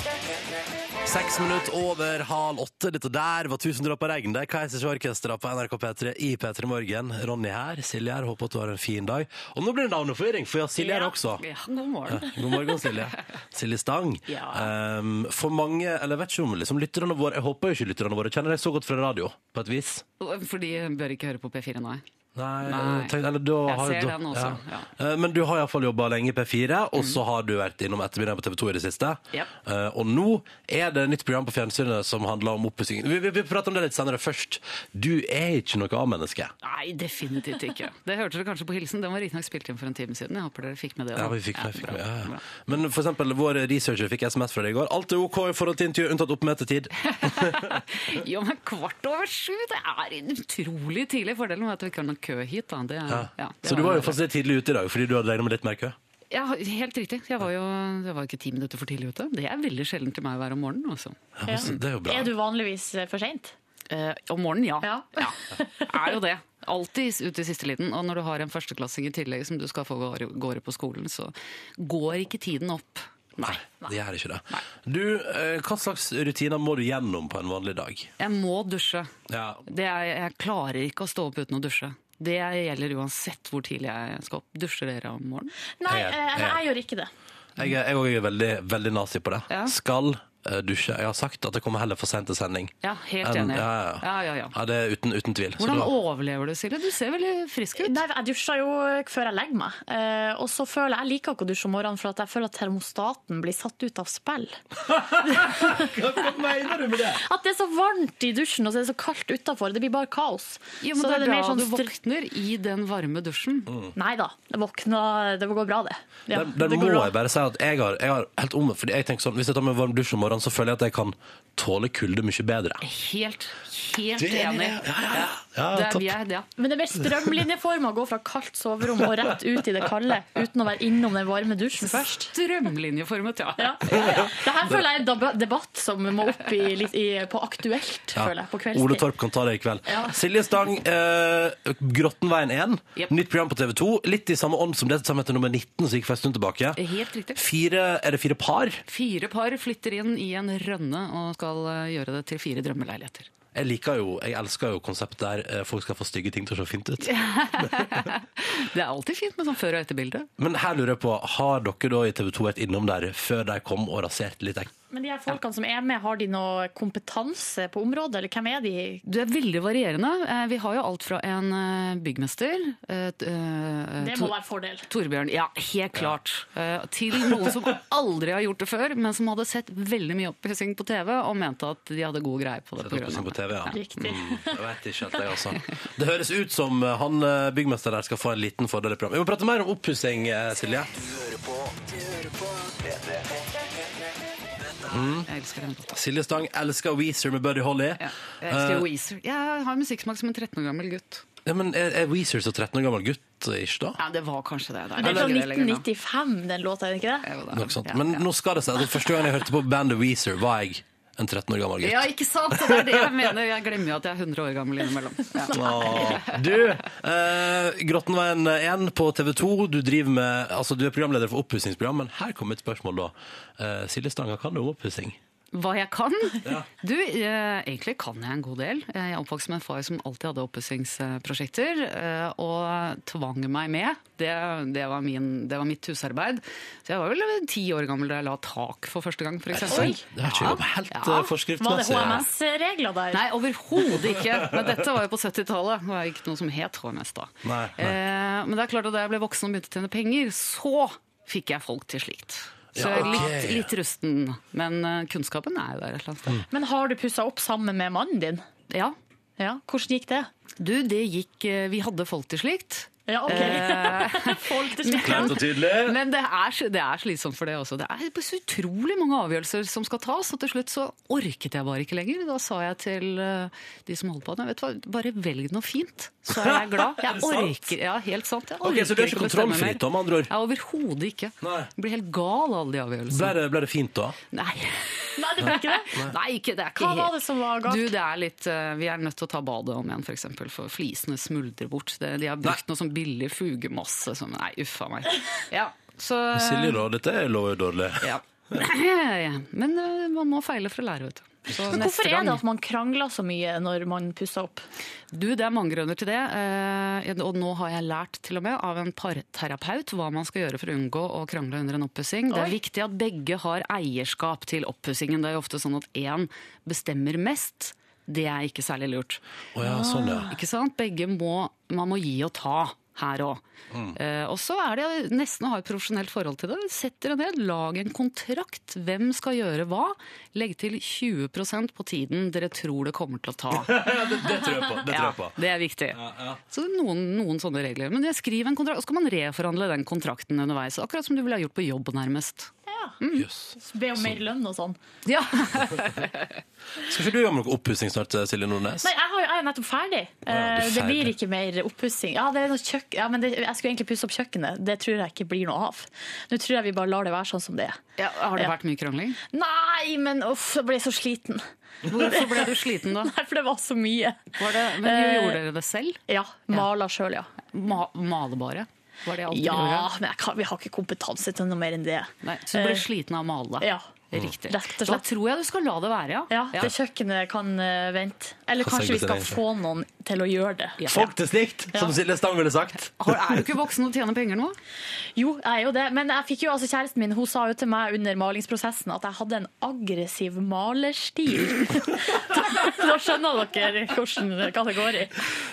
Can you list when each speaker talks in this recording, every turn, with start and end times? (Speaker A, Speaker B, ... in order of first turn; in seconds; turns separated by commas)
Speaker A: 1.0-11.4, Speaker B: 11.4-13.1, Speaker A: 12.1-20.0, Speaker B: 14.3-14.7, Speaker B: 20.2-22.0, Speaker A: 22.4-36.5, Speaker B: 22.6-23.1, Speaker B: 23.7-24.9, Speaker B: 36.6-42.5, Speaker A: 41.2-47.8, Speaker B: 47.0-54.2, Speaker A: 53.1-56.0, Speaker B: 56.3-61.2, Speaker A: 61.4-62.3, Speaker C: 61.5-63.5, Speaker B: 63.9-73.7, Speaker C: 64.8-65.3, Speaker A: 73.4-78.1, Speaker B: 78.2-79.1, Speaker A: 79.3-79.6, Speaker B: 79.7-85.5, Speaker C: 85.8-87.1, Speaker A: 85.9-86.6, Speaker A: 87.6-95.9, Speaker B: 89.5-89.8, Speaker B: 92.8-94.5, Speaker B: 95.6-98.0, Speaker C: 97.8-104.5, Speaker A: 104.9-107.2, Speaker C: 105.3-105.8, Speaker C: 107.2-111.9, Speaker B: 110.8-113.7, Speaker C: 114.0-117.1, Speaker A: 116.3-122.8, Speaker B: 122.8-124.8, Speaker A: 124.2-126.2, Speaker B: 125.7-126.5, Speaker C: 126.6-132.3, Speaker B: 131.8-134.3, Speaker C: 133.6-139.1, Speaker A: 133.9-134.3, Speaker A: 138.2-146.8, Speaker B: 146.8-147.4, Speaker A: 147.3-148.8, Speaker B: 148.9-153.3, Speaker A: 153.5-158.1, Speaker B: 157.0-160.3, Speaker A: 160.4-164.7, Speaker C: 164.9-169.0, Speaker B: 169.1-174.3, Speaker C: 174.0-174.8, Speaker B: 174.9-183.8, Speaker A: 182.8-190.9, Speaker C: 183.7-184.6, Speaker A: 194.9-195.3, Speaker B: 195.3-196.0, Speaker A: 195.9-198.9, Speaker B: 198.0-201.2, Speaker A: 201.4-204.0, Speaker B: 204.0-205.9, Speaker C: 205.0-207.2, Speaker A: 205.0-205.3, Speaker B: 207.2-208.2, Speaker A: 207.5-213.2, Speaker B: 211.8-216.6, Speaker A: 215.5-225.2, Speaker B: 225.5-241.3, Speaker A: 239.5-242.3, Speaker C: 239.7-240.0, Speaker C: 241.6-243.2, Speaker B: 243.1-256.4, Speaker A: 247.4-248.0, Speaker A: 252.8-253.7, Speaker C: 256.5-258.4, Speaker B: 258.7-259.0, Speaker C: 259.4-260.3, Speaker B: 260.6-283.4, Speaker C: 263.1-265.4, Speaker A: 265.0-266.0, Speaker A: 276.3-277.6, Speaker A: 278.6-280.3, Speaker A: 281.4-281.7, Speaker A: 283.1-284.2, Speaker B: 284.3-296.8, Speaker C: 285.2-285.9, Speaker A: 285.4-286.1, Speaker C: 286.8-287.9, Speaker A: 296.3-298.6, Speaker B: 298.0-302.4, Speaker C: 301.7-304.6, Speaker B: 305.1-319.2, Speaker A: 319.5-320.3, Speaker B: 320.2-323.4, Speaker A: 323.7-324.0, Speaker B: 323.9-333.8, Speaker A: 333.5-335.4, Speaker B: 334.9-343.3, Speaker A: 335.9-336.4, Speaker C: 342.7-342.9, Speaker A: 343.1-344.2, Speaker C: 343.7-344.8, Speaker B: 345.1-346.3, Speaker A: 346.8-348.9, Speaker C: 348.8-357.8, Speaker A: 350.3-351.1, Speaker B: 358.0-359.2, Speaker C: 359.3-361.4, Speaker B: 361.9-363.1, Speaker C: 362.0-362.5, Speaker C: 363.0-364.3, Speaker B: 364.4-366.0, Speaker C: 364.8-365.4, Speaker C: 366.1-367.3, Speaker B: 367.5-369.9, Speaker C: 369.3-372.8, Speaker B: 372.2-376.7, Speaker C: 374.5-375.0, Speaker C: 376.3-380.8, Speaker A: 378.6-379.4, Speaker B: 380.8-381.1, Speaker A: 380.9-383.4, Speaker B: 383.0-384.6, Speaker C: 385.2-395.1